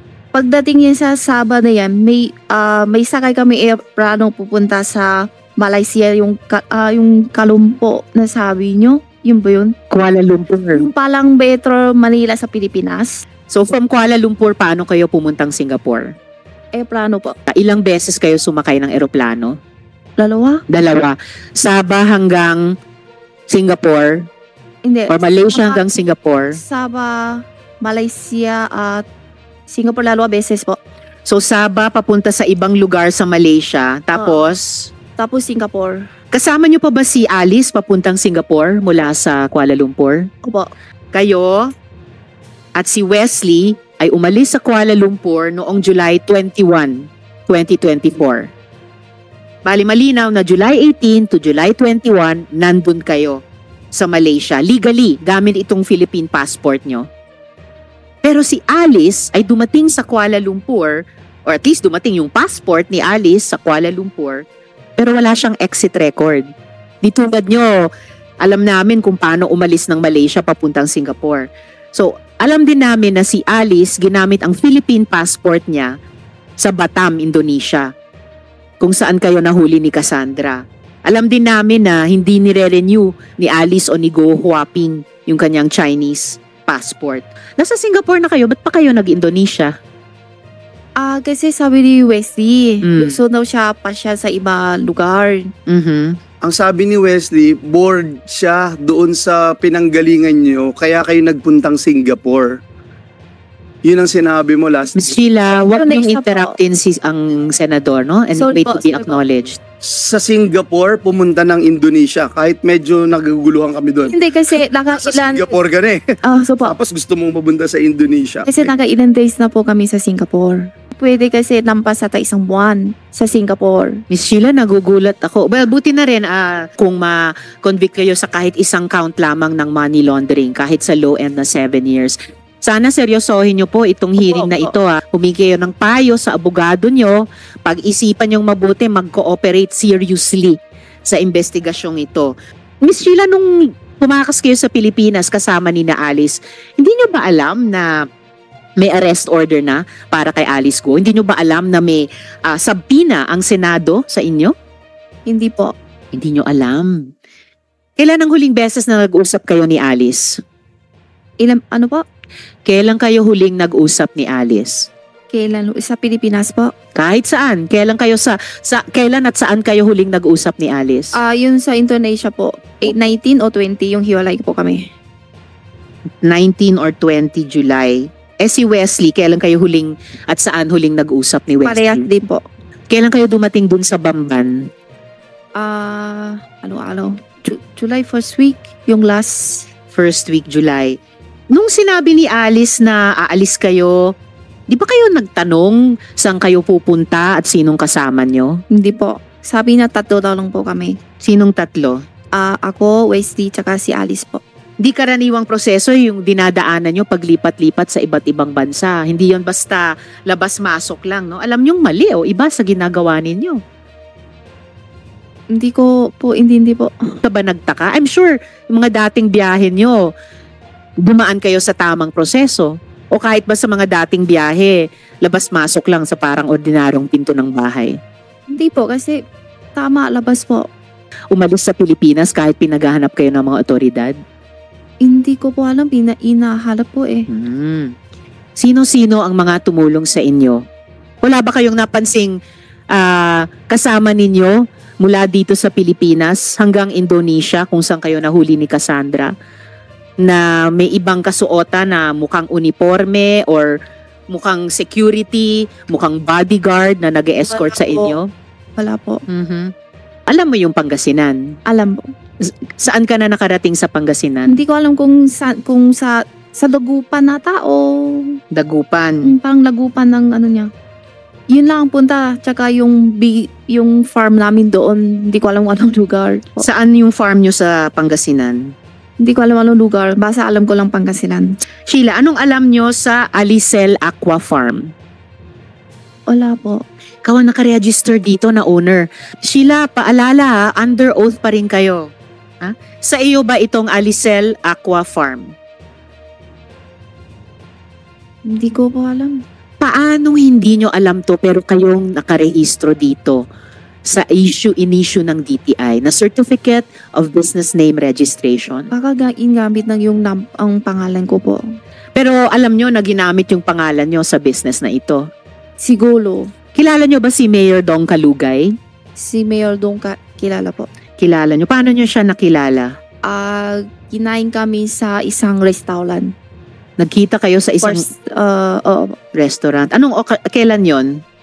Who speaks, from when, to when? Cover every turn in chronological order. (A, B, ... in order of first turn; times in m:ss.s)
0:00.3-0:09.8 A
0:09.9-0:10.9 B
0:10.8-0:13.1 A
0:13.5-0:16.2 B
0:16.8-0:17.4 A
0:17.5-0:19.6 B
0:20.2-0:20.6 A
0:20.7-0:22.6 B
0:23.5-0:24.3 B
0:24.8-0:25.8 A
0:25.1-0:26.6 B
0:26.5-0:29.0 A
0:29.7-0:30.8 A
0:31.3-0:34.9 B
0:34.2-0:34.4 A
0:35.2-0:36.1 A
0:36.3-0:40.3 B
0:40.4-0:40.7 A
0:41.1-0:41.7 B
0:42.8-0:48.5 B
0:49.7-0:53.4 B
0:54.0-0:57.1 B
0:58.2-1:04.5 B
1:05.0-1:06.5 B
1:07.0-1:07.8 B
1:08.4-1:16.0 B
1:16.6-1:17.9 B
1:18.8-1:29.8 B
1:31.0-1:35.5 A
1:32.8-1:33.2 B
1:35.7-1:36.2 B
1:36.4-1:42.6 C
1:43.8-1:44.9 C
1:45.0-1:49.6 B
1:45.7-1:46.6 A
1:48.4-1:49.2 A
1:49.8-1:54.1 C
1:54.1-1:55.5 A
1:54.9-1:56.1 C
1:56.3-1:56.8 A
1:56.6-1:58.7 C
1:58.5-2:04.0 A
2:04.1-2:27.9 B
2:14.3-2:14.7 A
2:28.8-2:34.5 B
2:35.3-2:35.7 A
2:36.1-2:37.1 B
2:38.0-2:40.4 B
2:41.4-2:42.0 A
2:42.7-2:44.9 B
2:45.3-2:46.7 A
2:47.0-2:51.2 B
2:51.2-2:54.9 A
2:56.2-3:02.1 B
3:01.6-3:02.4 A
3:02.9-3:04.7 B
3:05.6-3:09.7 A
3:09.9-3:11.0 B
3:11.5-3:14.1 B
3:14.7-3:18.6 B
3:18.8-3:21.0 A
3:21.2-3:22.0 B
3:22.3-3:24.4 A
3:24.8-3:33.6 B
3:35.5-3:37.2 A
3:37.2-3:40.0 B
3:41.0-3:48.0 B
3:48.5-3:49.2 A
3:49.8-3:50.7 A
3:51.3-3:54.2 B
3:55.0-3:57.3 A
3:57.3-3:58.0 B
3:58.6-4:00.6 B
4:01.2-4:02.4 B
4:02.9-4:09.3 B
4:10.2-4:13.7 B
4:14.3-4:18.3 B
4:17.5-4:18.2 A
4:18.8-4:19.2 A
4:19.3-4:19.7 B
4:20.3-4:21.4 B
4:21.7-4:22.1 A
4:22.4-4:24.6 B
4:24.5-4:28.4 A
4:28.5-4:29.4 B
4:29.2-4:30.7 A
4:31.5-4:36.7 A
4:36.6-4:38.7 B
4:39.2-4:41.6 A
4:41.9-4:44.9 B
4:46.3-4:46.8 A
4:47.2-4:55.5 B
4:58.5-4:59.4 A
4:59.8-5:03.4 B
5:04.1-5:08.9 B
5:08.9-5:11.6 A
5:12.2-5:15.3 B
5:15.8-5:16.5 A
5:16.8-5:18.8 B
5:19.2-5:20.9 A
5:21.2-5:23.0 B
5:23.2-5:26.3 A
5:27.0-5:28.1 B
5:27.8-5:29.2 A
5:29.3-5:31.2 B